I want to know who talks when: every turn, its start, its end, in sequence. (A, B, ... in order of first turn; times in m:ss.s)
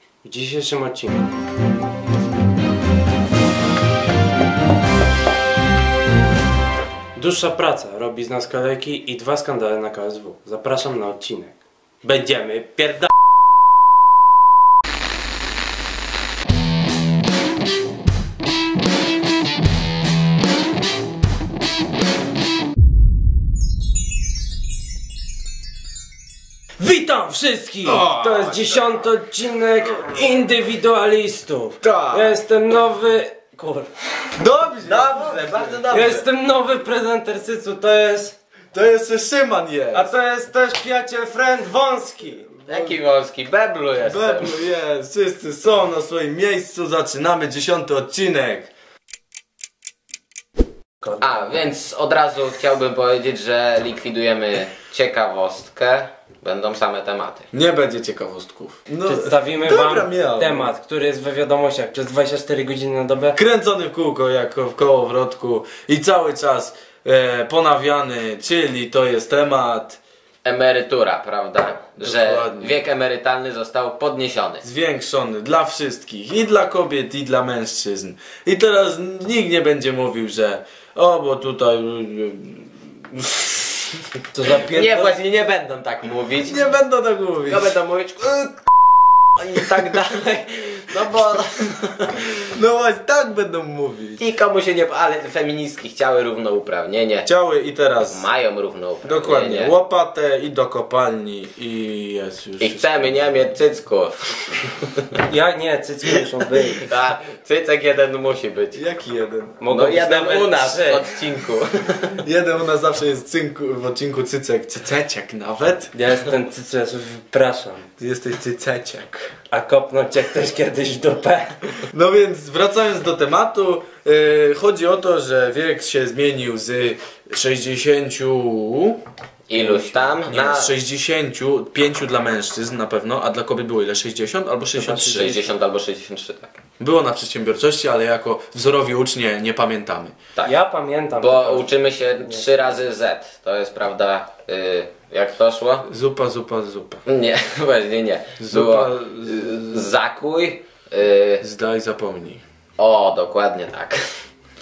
0:00.2-0:01.3 A
0:07.2-0:13.1 A
0:26.8-0:33.9 A
0:27.8-0:28.7 B
0:31.8-0:32.3 B
0:34.4-0:35.8 B
0:34.8-0:36.2 C
0:35.9-0:38.4 A
0:38.7-0:40.1 B
0:39.9-0:42.5 A
0:42.5-0:43.0 B
0:42.7-0:44.6 C
0:44.0-0:48.7 B
0:51.1-0:57.5 C
0:57.5-1:00.7 B
0:59.0-1:03.4 A
1:03.3-1:10.0 B
1:10.4-1:14.6 C
1:12.0-1:12.7 B
1:14.6-1:24.0 B
1:24.3-1:25.2 A
1:24.7-1:26.7 C
1:26.4-1:27.7 B
1:27.5-1:28.6 C
1:29.4-1:32.2 C
1:32.4-1:34.2 B
1:34.2-1:37.3 C
1:37.2-1:38.3 B
1:38.1-1:39.7 C
1:39.0-1:43.3 B
1:42.6-1:45.0 C
1:45.2-1:46.9 A
1:46.7-1:48.8 C
1:48.7-1:49.7 B
1:49.6-1:51.1 A
1:49.7-1:52.2 C
1:52.2-1:55.9 B
1:55.9-1:57.9 A
1:58.0-1:59.3 B
1:59.5-2:01.6 A
2:01.9-2:09.0 B
2:09.5-2:10.7 C
2:09.5-2:15.3 B
2:14.8-2:15.5 A
2:15.1-2:16.6 C
2:16.8-2:20.2 B
2:20.4-2:22.4 A
2:21.2-2:25.8 C
2:25.8-2:27.0 B
2:27.1-2:31.4 C
2:28.4-2:29.9 B
2:31.4-2:32.4 B
2:32.8-2:34.0 C